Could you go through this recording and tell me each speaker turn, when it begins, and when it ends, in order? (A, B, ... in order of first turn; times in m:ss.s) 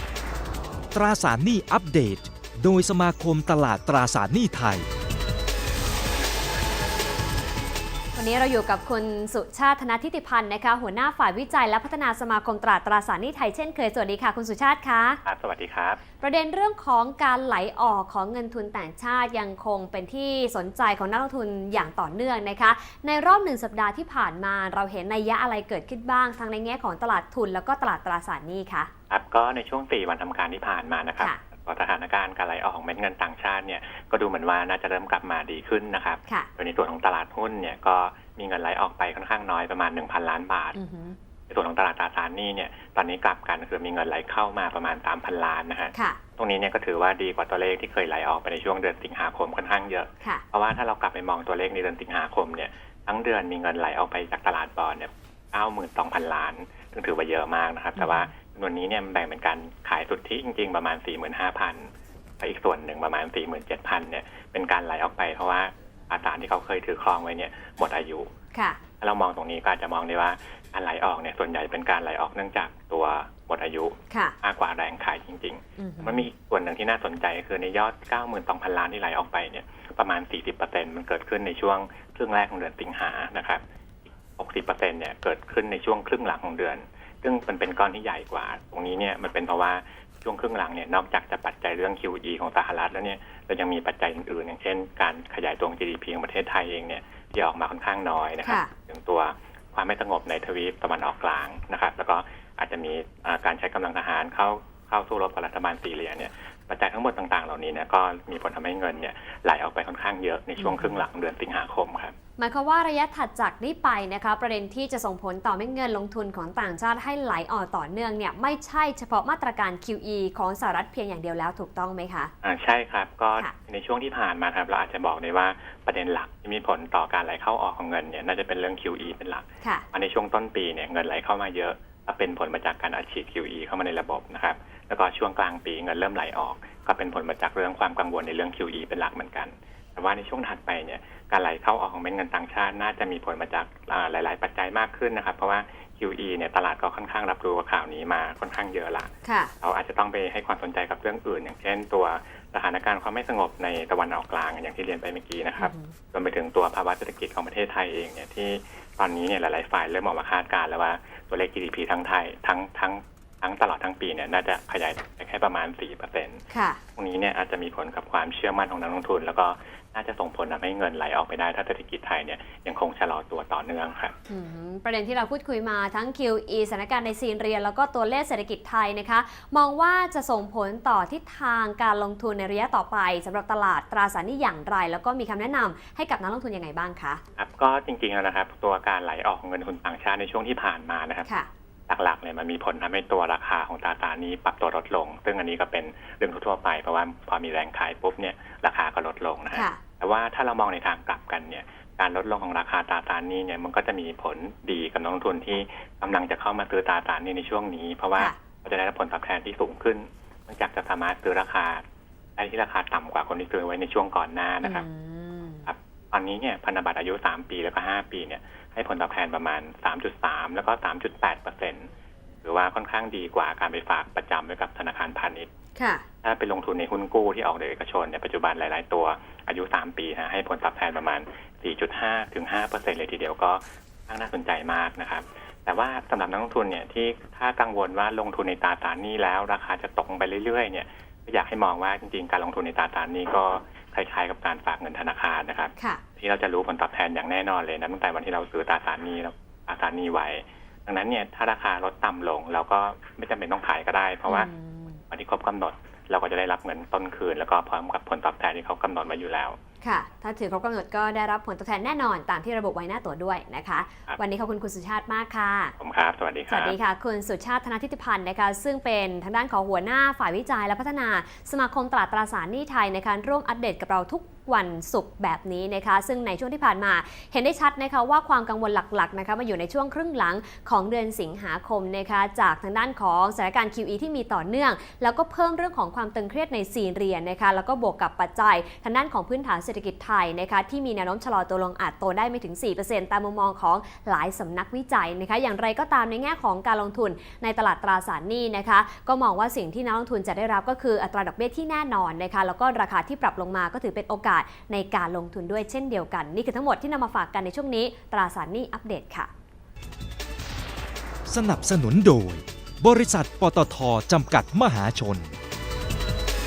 0:00.9-0:04.9 A
0:08.2-0:15.2 B
0:15.2-0:16.0 C
0:16.2-0:28.9 B
0:29.1-0:40.8 C
0:40.8-0:41.2 B
0:41.5-1:01.9 C
0:45.9-0:46.2 B
0:58.0-0:58.3 B
1:02.4-1:08.3 C
1:08.5-1:08.8 B
1:09.0-1:23.6 C
1:14.1-1:14.4 B
1:15.8-1:16.2 B
1:24.4-1:52.1 C
1:38.4-1:38.7 B
1:50.6-1:51.0 B
1:52.4-2:02.3 B
2:02.4-2:29.1 C
2:29.2-2:29.5 B
2:29.6-2:46.4 C
2:35.6-2:35.9 B
2:46.5-2:46.8 B
2:47.0-2:54.1 C
2:54.3-3:07.2 B
3:07.4-3:11.3 C
3:11.9-3:31.8 C
3:19.5-3:19.8 B
3:32.4-3:34.9 C
3:34.6-3:35.7 B
3:35.7-3:41.9 C
3:42.4-3:45.5 C
3:45.8-3:46.0 B
3:46.2-4:14.5 C
4:14.3-4:15.0 B
4:15.1-4:19.6 C
4:19.8-4:25.7 B
4:25.8-4:26.8 C
4:26.5-5:09.3 B
5:11.3-5:15.4 A